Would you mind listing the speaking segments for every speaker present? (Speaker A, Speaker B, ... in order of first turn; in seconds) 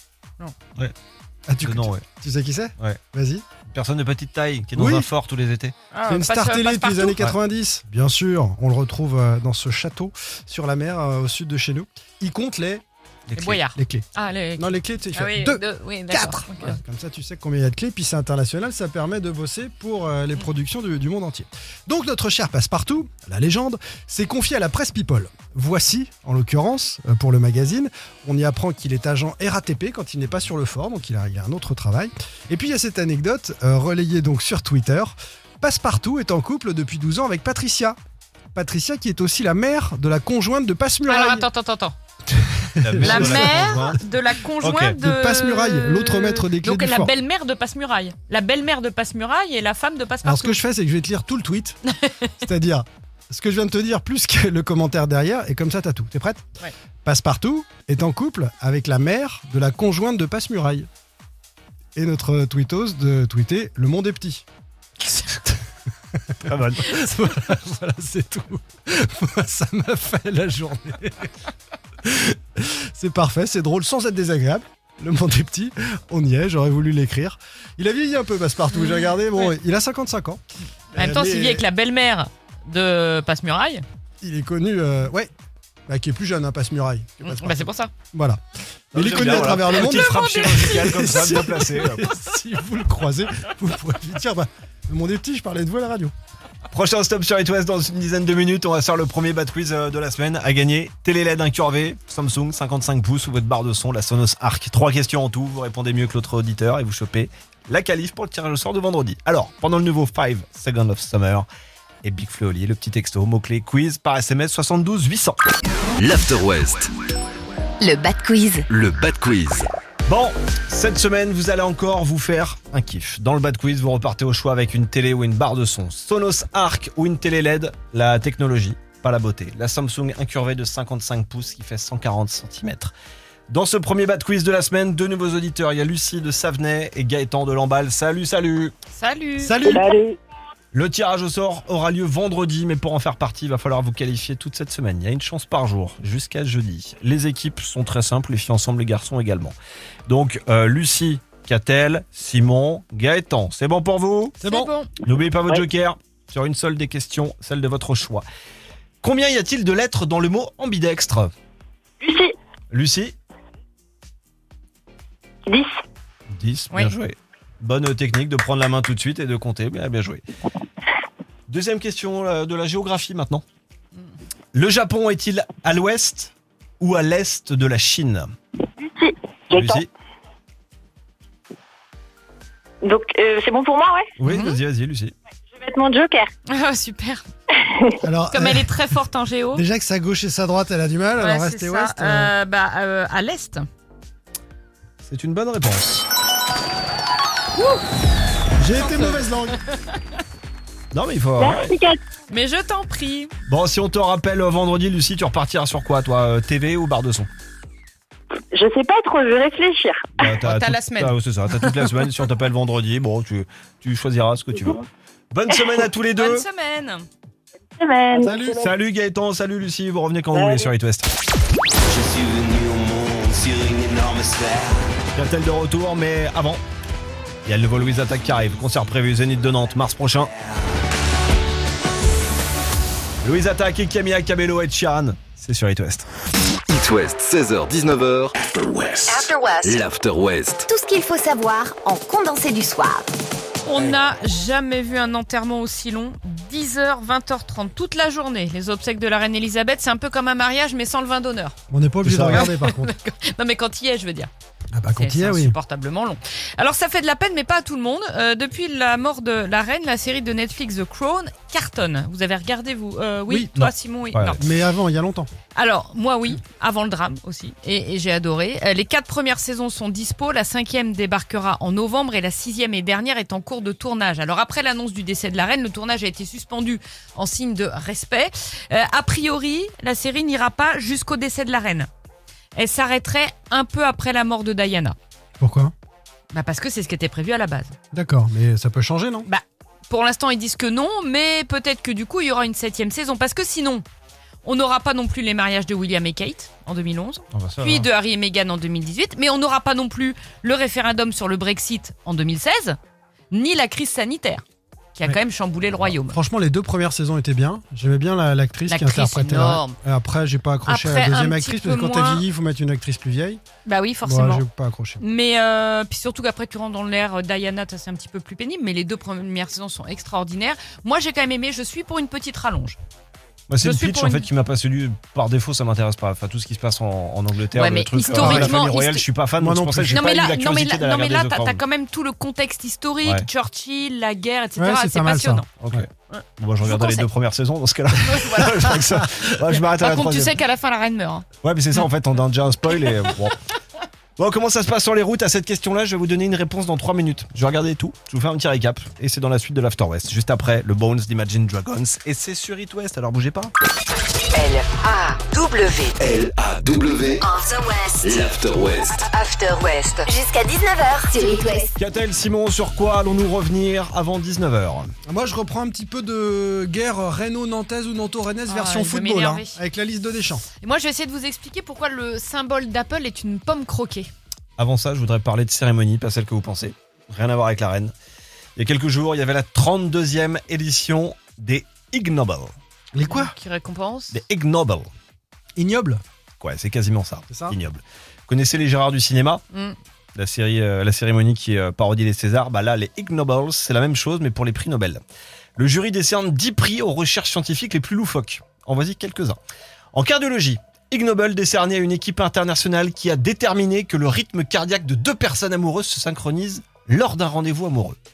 Speaker A: 1.5-3.4, 4.7-5.1, 6.1-12.8, 13.7-38.0, 38.5-41.5, 42.6-44.0, 45.0-47.1, 50.2-51.8, 52.4-56.4, 57.0-60.9, 61.9-64.4, 66.3-71.3, 72.0-80.4, 80.9-81.6, 84.2-85.3, 85.9-88.4, 88.9-96.1, 139.4-139.9, 154.4-154.7, 188.0-188.8, 189.5-192.3, 198.6-199.6, 218.1-218.7, 251.7-252.9, 254.7-255.6, 263.3-263.7, 264.4-265.3, 285.4-285.7, 287.9-289.3, 306.1-313.4, 314.0-315.0, 328.1-328.6, 329.4-330.0, 334.6-335.9, 365.1-370.4, 382.9-383.3, 385.6-386.0, 387.3-387.6
Speaker B: 1.6-2.0, 3.7-5.7, 13.3-13.6, 42.8-44.0, 44.6-45.0, 66.5-66.9, 88.9-92.0, 96.7-111.5, 112.0-115.4, 120.1-132.9, 133.5-138.8, 140.7-149.6, 150.1-154.4, 155.0-158.2, 159.0-161.3, 162.7-163.2, 166.3-170.2, 171.5-173.4, 174.5-178.3, 179.5-179.9, 184.2-185.1, 195.0-196.1, 200.9-201.7, 203.5-207.3, 210.2-216.4, 218.5-221.1, 225.1-226.6, 227.4-230.3, 233.2-236.1, 252.0-252.5, 264.1-264.4, 297.3-297.9, 323.5-331.6, 335.6-340.4, 341.4-343.4, 344.2-353.5, 361.8-364.9, 374.6-377.9, 378.6-382.5, 384.1-384.9, 386.4-389.4, 390.1-395.0, 395.6-399.4, 399.9-408.0
Speaker C: 5.9-7.2, 13.3-16.8, 41.0-42.0, 43.0-50.6, 51.9-52.3, 78.7-79.5, 80.9-83.8, 87.2-87.9, 89.4-91.1, 138.9-139.7, 154.4-154.9, 184.2-184.6, 186.5-187.2, 188.3-189.6, 191.2-193.7, 198.7-199.8, 202.3-203.3, 210.3-211.2, 216.1-217.1, 243.6-251.5, 252.3-254.3, 254.9-264.5, 265.5-281.9, 282.5-284.9, 286.3-287.7, 289.2-293.8, 294.4-302.8, 303.3-304.4, 304.9-306.2, 308.7-309.8, 310.6-312.2, 313.6-314.4, 315.0-322.8, 323.6-324.3, 327.5-329.0, 329.9-335.5, 336.1-337.1, 338.0-338.8, 339.5-341.2, 368.5-369.6, 370.6-374.1, 383.0-384.2, 389.5-389.8
Speaker D: 116.0-116.9, 118.7-119.7, 221.9-224.7, 236.7-240.7, 356.0-357.3, 358.0-359.0
Speaker E: 117.8-118.7, 239.1-239.8, 240.7-243.0, 354.3-355.9, 357.3-358.0, 359.0-361.7
Speaker F: 139.7-140.2, 162.0-162.3, 178.8-179.8, 182.8-184.1, 185.5-186.3, 201.4-202.0, 208.5-210.0, 217.8-218.4